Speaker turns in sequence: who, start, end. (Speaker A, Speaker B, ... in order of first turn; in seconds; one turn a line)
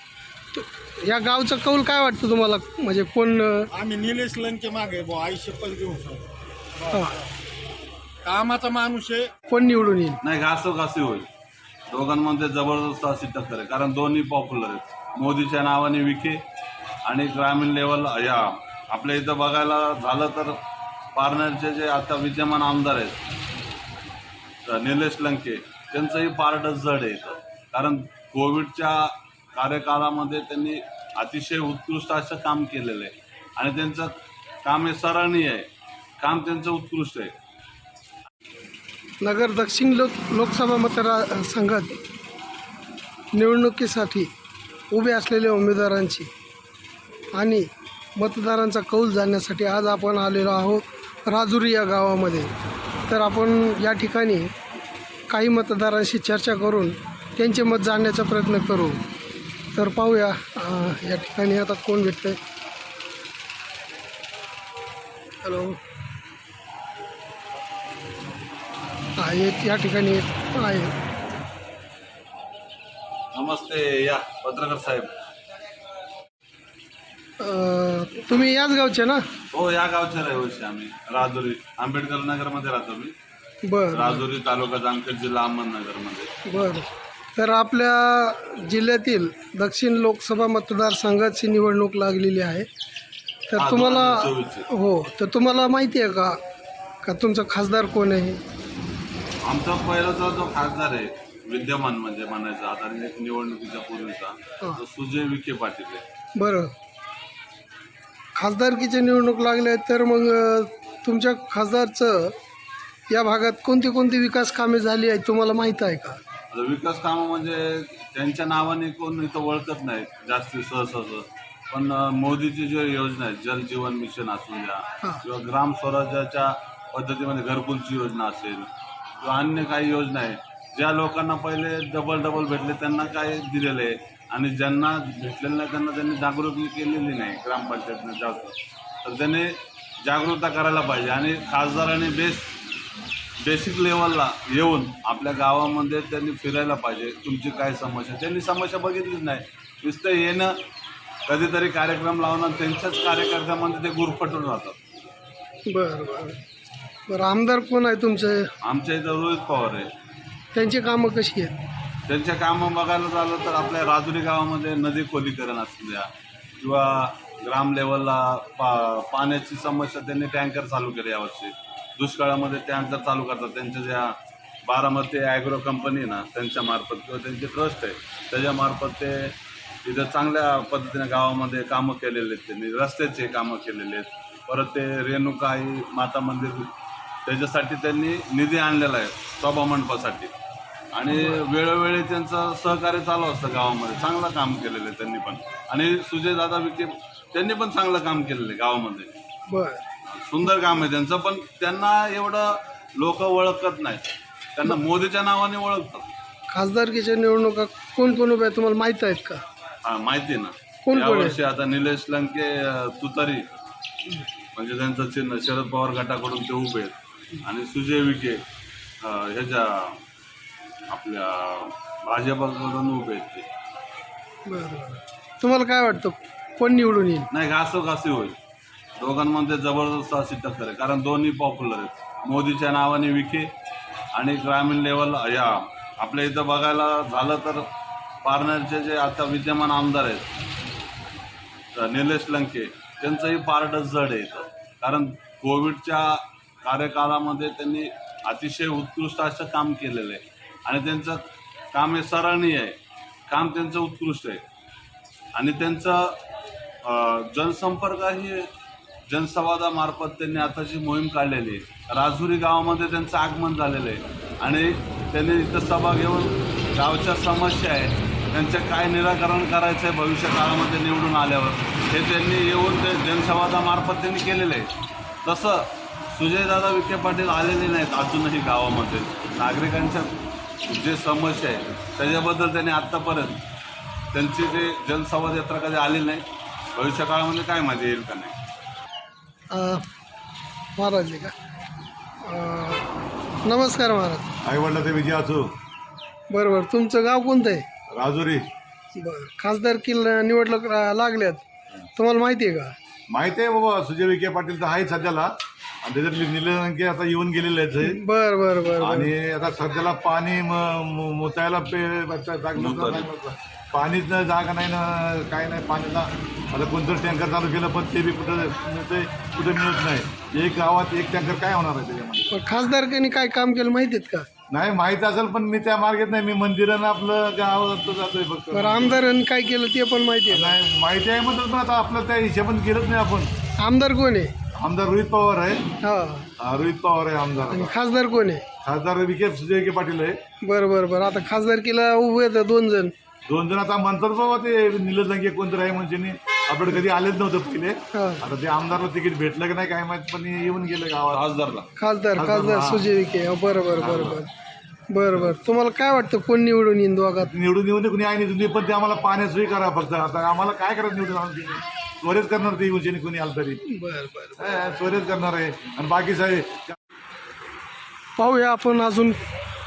Speaker A: 0.5-3.7
Speaker B: 3.8-6.1
Speaker A: 6.9-7.2
Speaker B: 8.3-9.2
Speaker A: 9.5-10.2
Speaker C: 10.2-11.3
Speaker C: 11.9-16.4
Speaker C: 17.1-20.6
Speaker C: 21.1-23.2
Speaker C: 24.7-34.1
Speaker C: 34.6-35.7
Speaker C: 36.2-37.3
Speaker A: 39.2-42.0
Speaker A: 43.3-44.3
Speaker A: 44.9-46.3
Speaker A: 47.4-52.5
Speaker A: 53.1-54.5
Speaker A: 55.3-59.0
Speaker A: 59.8-62.4
Speaker A: 65.4-65.8
Speaker A: 69.2-70.9
Speaker C: 73.3-75.1
Speaker A: 77.4-79.2
Speaker C: 79.5-83.1
Speaker A: 83.7-84.3
Speaker C: 84.0-86.3
Speaker A: 86.5-92.7
Speaker A: 93.5-96.4
Speaker A: 97.0-98.4
Speaker C: 99.5-106.0
Speaker A: 106.4-106.7
Speaker A: 108.3-112.3
Speaker A: 113.1-116.2
Speaker C: 116.5-128.7
Speaker C: 129.2-142.5
Speaker C: 143.4-150.6
Speaker C: 151.3-154.8
Speaker A: 155.7-156.4
Speaker A: 157.1-158.5
Speaker C: 158.7-159.9
Speaker A: 160.5-161.5
Speaker C: 162.1-166.1
Speaker C: 166.6-174.1
Speaker C: 174.7-179.3
Speaker C: 179.8-186.7
Speaker C: 187.3-190.3
Speaker C: 191.0-199.1
Speaker A: 191.1-191.4
Speaker A: 199.5-199.8
Speaker C: 200.1-206.1
Speaker A: 206.5-209.4
Speaker C: 209.8-213.4
Speaker A: 210.9-211.4
Speaker C: 214.6-216.9
Speaker C: 217.5-218.4
Speaker C: 219.0-220.0
Speaker C: 220.9-223.5
Speaker A: 224.5-227.3
Speaker C: 227.3-228.4
Speaker C: 229.0-233.5
Speaker C: 234.2-237.7
Speaker C: 238.2-240.3
Speaker C: 241.8-252.8
Speaker C: 253.3-254.4
Speaker C: 255.4-256.2
Speaker C: 256.9-258.5
Speaker C: 259.1-274.7
Speaker C: 275.2-280.1
Speaker C: 280.7-283.4
Speaker C: 284.1-288.3
Speaker A: 289.5-289.8
Speaker A: 290.8-291.3
Speaker A: 292.2-292.8
Speaker A: 293.4-294.3
Speaker D: 294.4-295.5
Speaker A: 296.3-297.6
Speaker D: 297.9-298.4
Speaker A: 299.0-302.7
Speaker D: 303.1-305.3
Speaker D: 305.9-308.0
Speaker A: 307.8-309.1
Speaker D: 308.8-322.3
Speaker A: 322.3-324.3
Speaker D: 324.5-329.0
Speaker A: 328.5-330.6
Speaker D: 330.3-333.3
Speaker A: 333.6-334.3
Speaker D: 334.6-335.7
Speaker A: 335.8-336.3
Speaker D: 336.4-337.8
Speaker A: 337.5-338.4
Speaker D: 338.6-340.2
Speaker A: 340.4-342.9
Speaker D: 343.3-351.2
Speaker A: 347.9-348.2
Speaker C: 351.2-351.6
Speaker A: 351.8-354.3
Speaker D: 352.2-352.9
Speaker D: 353.8-354.2
Speaker A: 354.9-357.3
Speaker D: 357.2-363.6
Speaker A: 363.7-364.5
Speaker D: 364.4-366.8
Speaker A: 368.2-369.2